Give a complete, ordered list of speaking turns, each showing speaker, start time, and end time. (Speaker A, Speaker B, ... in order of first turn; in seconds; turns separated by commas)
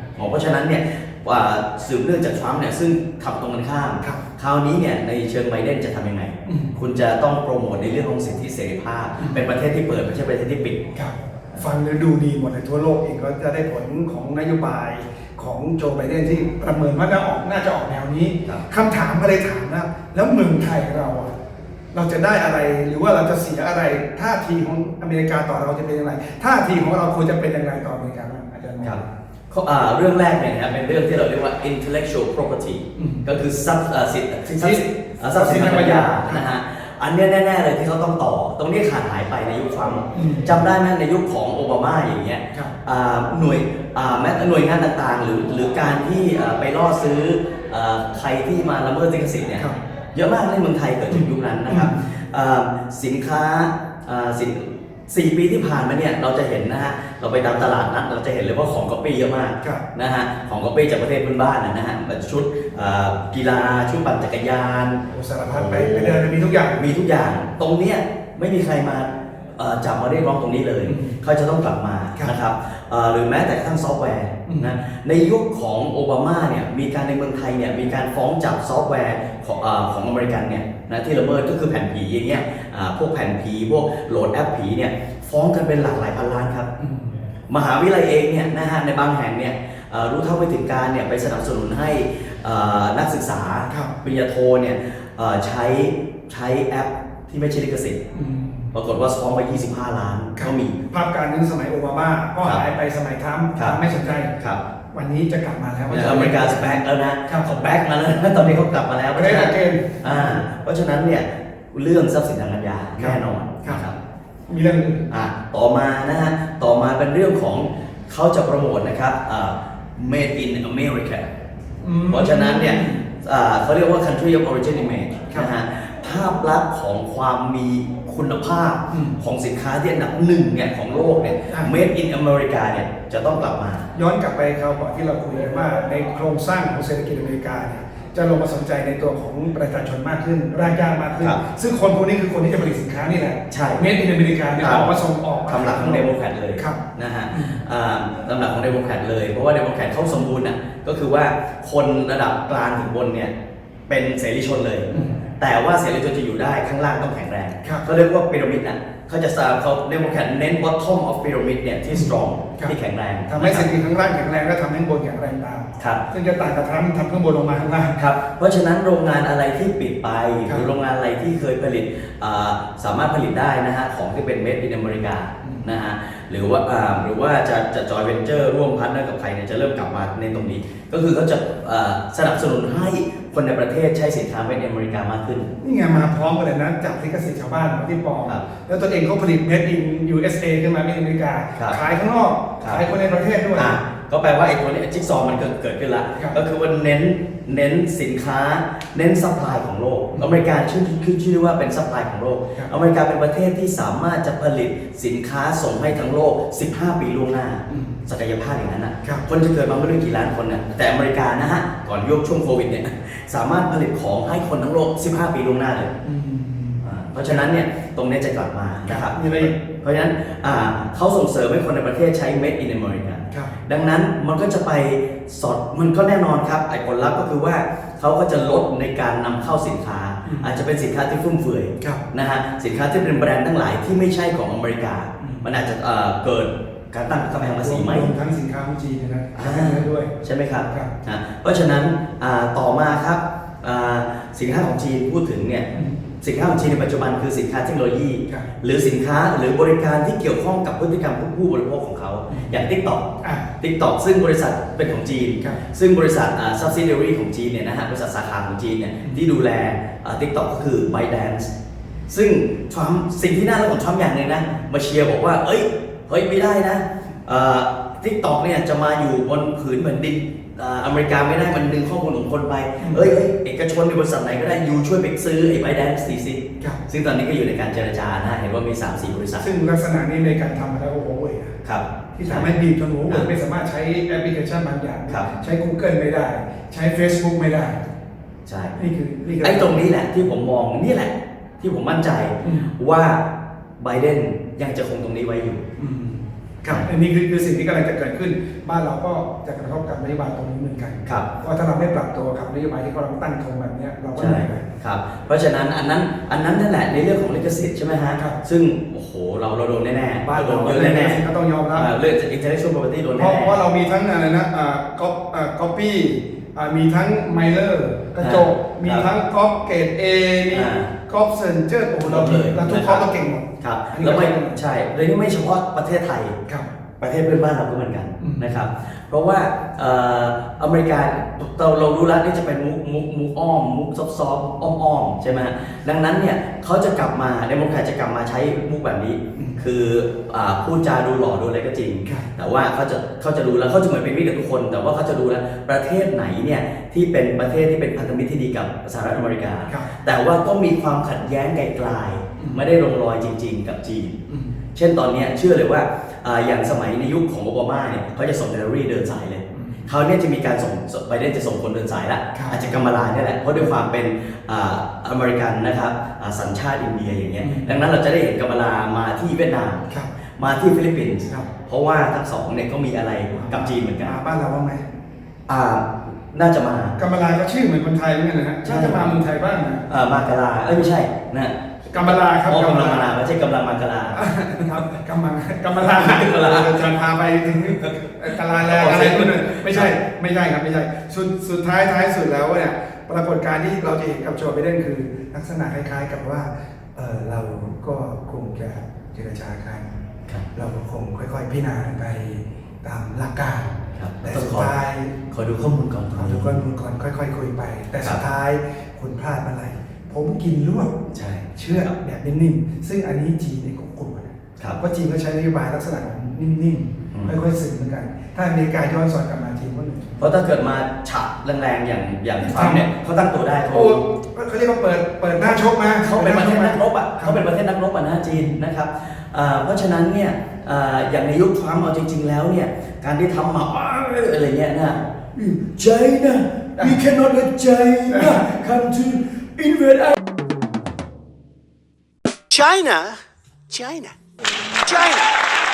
Speaker A: 0.2-10.8, Speaker B: 6.5-6.7, Speaker B: 10.9-21.3, Speaker B: 21.9-29.1, Speaker A: 29.5-66.2, Speaker B: 33.0-33.2, Speaker B: 34.5-36.4, Speaker B: 40.1-40.5, Speaker B: 51.1-52.0, Speaker B: 65.1-66.8, Speaker A: 66.8-86.7, Speaker B: 70.9-71.2, Speaker B: 86.8-87.2, Speaker A: 87.5-98.0, Speaker B: 98.1-98.7, Speaker A: 98.7-100.8, Speaker B: 100.4-104.3, Speaker B: 104.9-106.7, Speaker A: 105.9-114.0, Speaker B: 108.4-108.6, Speaker B: 109.1-110.4, Speaker B: 113.0-113.8, Speaker B: 114.5-115.0, Speaker A: 115.1-121.3, Speaker B: 121.8-123.0, Speaker A: 122.1-133.9, Speaker B: 128.9-129.2, Speaker B: 133.9-146.8, Speaker A: 143.5-143.8, Speaker A: 144.6-144.9, Speaker A: 145.5-153.3, Speaker B: 147.3-147.6, Speaker A: 153.9-163.7, Speaker B: 154.9-155.2, Speaker B: 161.9-162.8, Speaker B: 163.3-168.0, Speaker A: 165.8-166.0, Speaker A: 168.0-185.5, Speaker B: 185.6-193.7, Speaker A: 193.6-215.9, Speaker B: 207.7-208.0, Speaker B: 216.0-217.5, Speaker A: 216.8-238.1, Speaker B: 218.9-219.6, Speaker B: 230.2-230.5, Speaker B: 235.2-235.5, Speaker B: 237.6-240.1, Speaker A: 239.3-245.7, Speaker A: 246.2-253.1, Speaker B: 252.3-252.6, Speaker B: 253.2-253.5, Speaker A: 253.6-261.5, Speaker A: 262.1-279.5, Speaker B: 272.8-273.1, Speaker B: 279.4-281.6, Speaker A: 281.6-282.5, Speaker B: 282.1-287.8, Speaker A: 288.5-288.8, Speaker B: 288.8-289.9, Speaker A: 289.4-293.2, Speaker B: 292.4-292.7, Speaker A: 293.8-295.6, Speaker B: 295.8-304.6, Speaker A: 304.1-311.2, Speaker B: 310.2-311.9, Speaker A: 311.8-313.6, Speaker B: 313.2-324.6, Speaker A: 318.2-319.1, Speaker A: 320.5-320.9, Speaker A: 322.0-323.1, Speaker A: 323.6-326.4, Speaker A: 327.0-354.2, Speaker B: 328.2-328.5, Speaker B: 354.3-354.5, Speaker A: 354.8-369.9, Speaker B: 359.5-359.9, Speaker B: 362.3-362.6, Speaker B: 367.4-367.8, Speaker A: 370.4-374.1, Speaker B: 373.3-374.9, Speaker A: 375.5-377.0, Speaker B: 377.0-379.9, Speaker A: 378.6-379.2, Speaker A: 379.9-384.8, Speaker B: 381.9-383.1, Speaker B: 384.1-399.9, Speaker A: 385.8-386.9, Speaker A: 387.6-389.9, Speaker B: 400.5-405.1, Speaker A: 404.0-404.7, Speaker A: 405.3-406.6, Speaker B: 406.2-410.9, Speaker A: 411.1-411.9, Speaker B: 411.6-420.2, Speaker A: 420.2-424.0, Speaker B: 422.4-422.9, Speaker B: 423.7-427.5, Speaker A: 425.4-440.2, Speaker B: 438.1-438.5, Speaker C: 442.5-444.2, Speaker C: 444.8-445.4